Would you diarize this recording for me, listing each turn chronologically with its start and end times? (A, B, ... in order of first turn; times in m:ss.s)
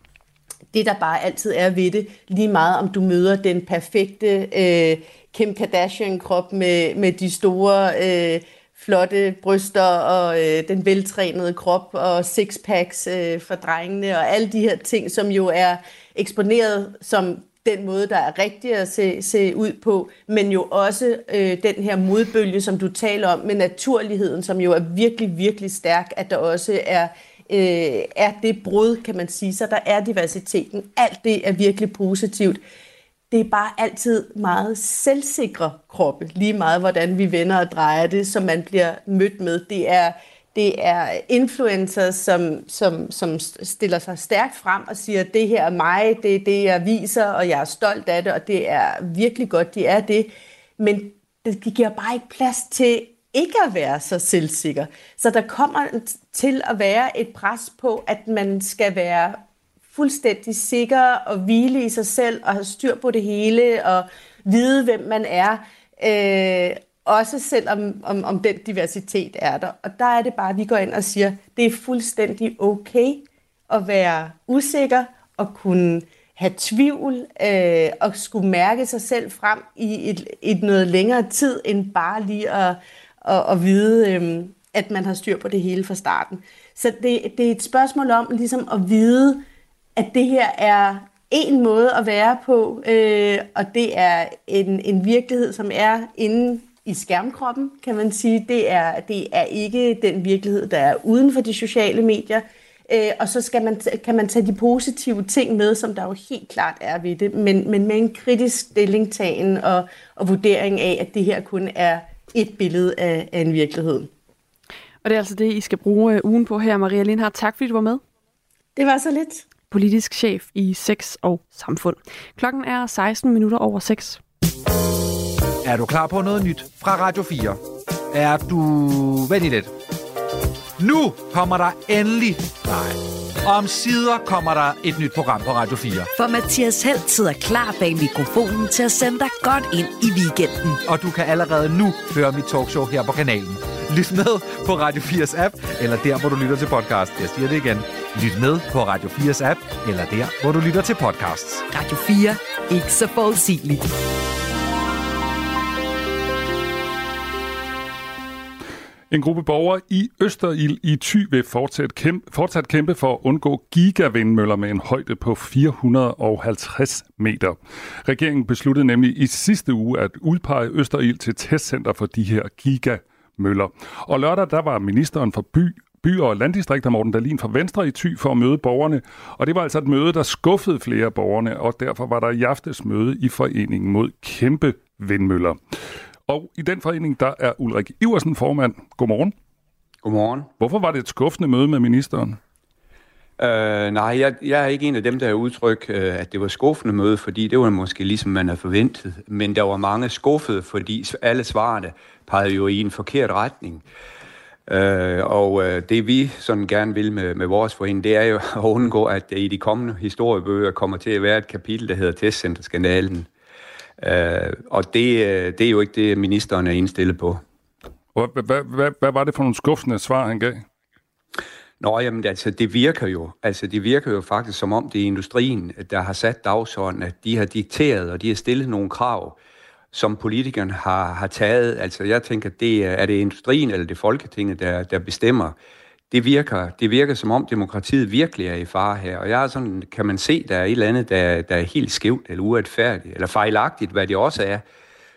0:00.7-0:32.6 A
0:33.3-1:29.4 A
1:30.0-1:54.1 A
1:55.0-1:58.0 B
1:58.8-1:59.5 A
1:59.7-2:04.2 B
2:05.6-2:07.6 C
2:08.1-2:09.7 C
2:10.8-2:16.1 C
2:16.2-2:20.8 D
2:20.9-2:31.7 C
2:31.7-2:33.9 D
2:39.1-3:05.6 E
3:06.3-3:09.3 E
3:10.0-3:10.5 F
3:10.6-3:12.4 E
3:13.4-3:23.8 F
3:24.7-3:33.3 F
3:34.0-3:37.4 F
3:38.2-3:40.6 E
3:41.8-3:49.4 F
3:49.9-3:55.6 F
3:56.1-4:04.6 F